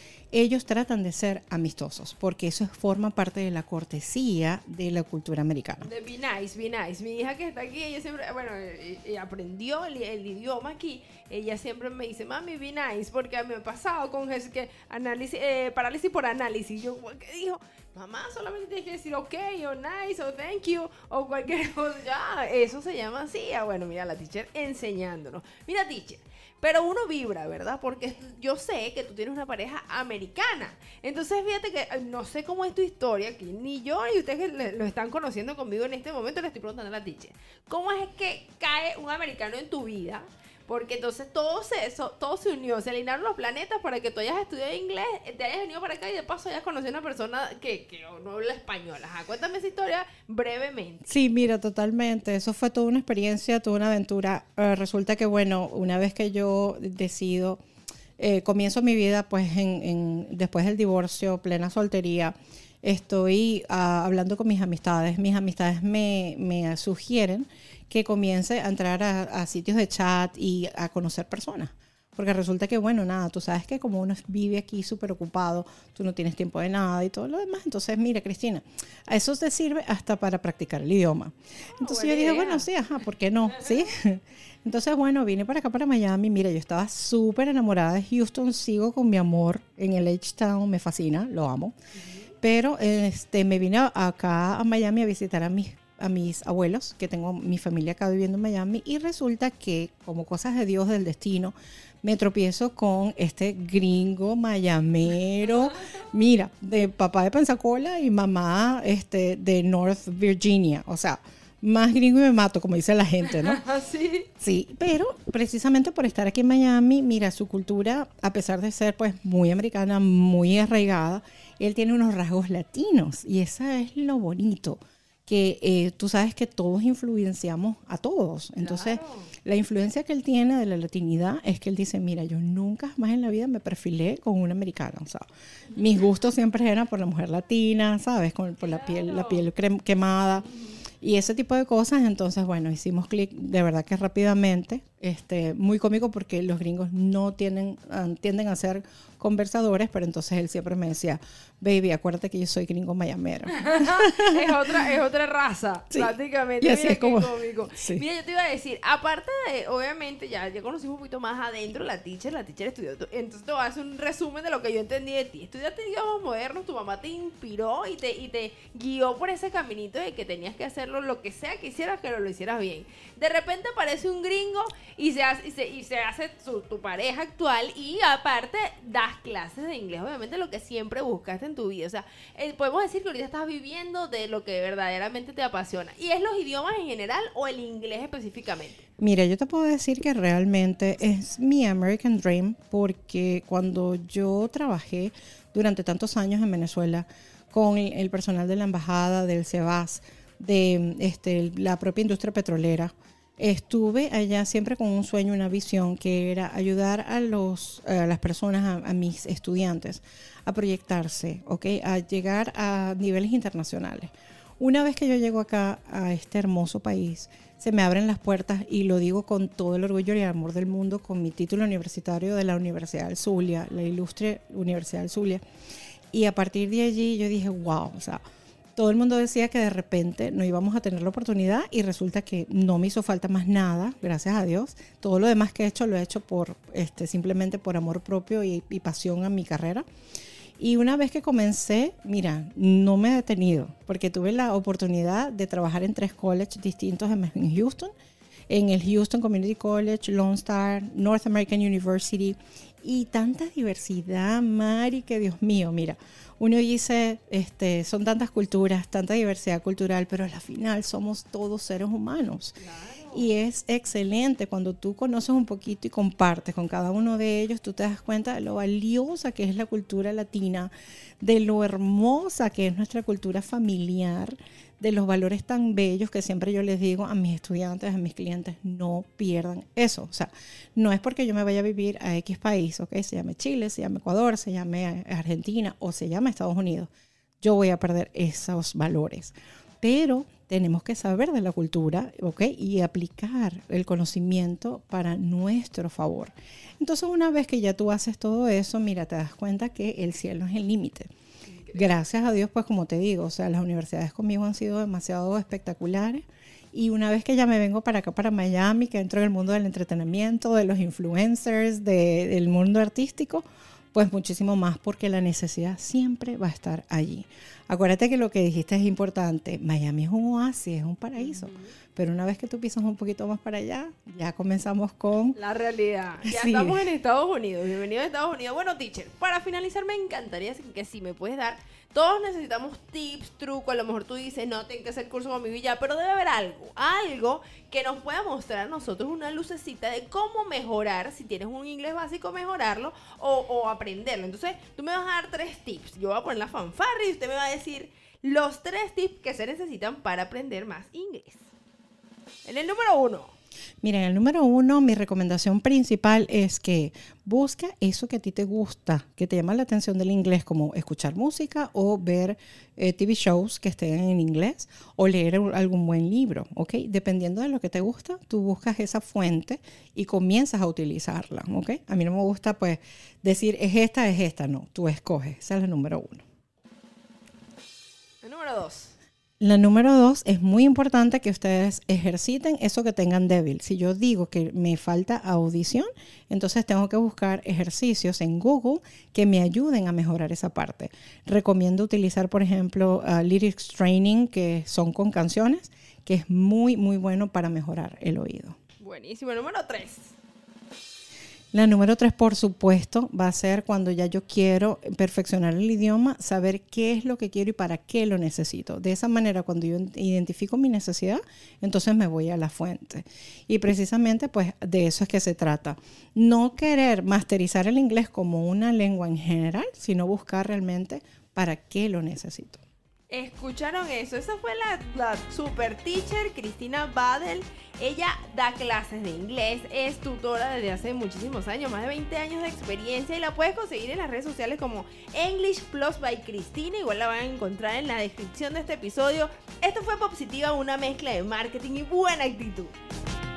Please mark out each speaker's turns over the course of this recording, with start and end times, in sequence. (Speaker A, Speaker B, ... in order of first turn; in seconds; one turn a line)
Speaker A: 0.3-5.9
Speaker B: 5.8-51.1
Speaker A: 51.1-57.6
Speaker A: 58.2-91.7
Speaker B: 81.7-82.7
Speaker B: 92.0-92.3
Speaker A: 92.4-113.6
Speaker B: 113.3-114.3
Speaker A: 114.4-140.5
Speaker B: 128.6-129.3
Speaker B: 138.6-139.5
Speaker B: 140.5-140.8
Speaker A: 141.0-154.6
Speaker B: 153.5-188.8
Speaker A: 155.9-158.0
Speaker A: 189.0-225.4
Speaker A: 226.1-228.2
Speaker A: 228.8-239.8
Speaker A: 240.6-247.9
Speaker A: 248.5-262.6
Speaker B: 262.6-263.3
Speaker A: 263.1-286.9
Speaker A: 287.4-301.1
Speaker A: 301.7-325.4
Speaker B: 321.2-321.7
Speaker B: 325.4-351.5
Speaker A: 326.2-326.8
Speaker B: 352.4-353.3
Speaker A: 353.8-376.2
Speaker B: 378.2-378.9
Speaker A: 379.4-398.6
Speaker B: 398.8-400.1
Speaker A: 401.5-422.6
Speaker B: 423.1-442.8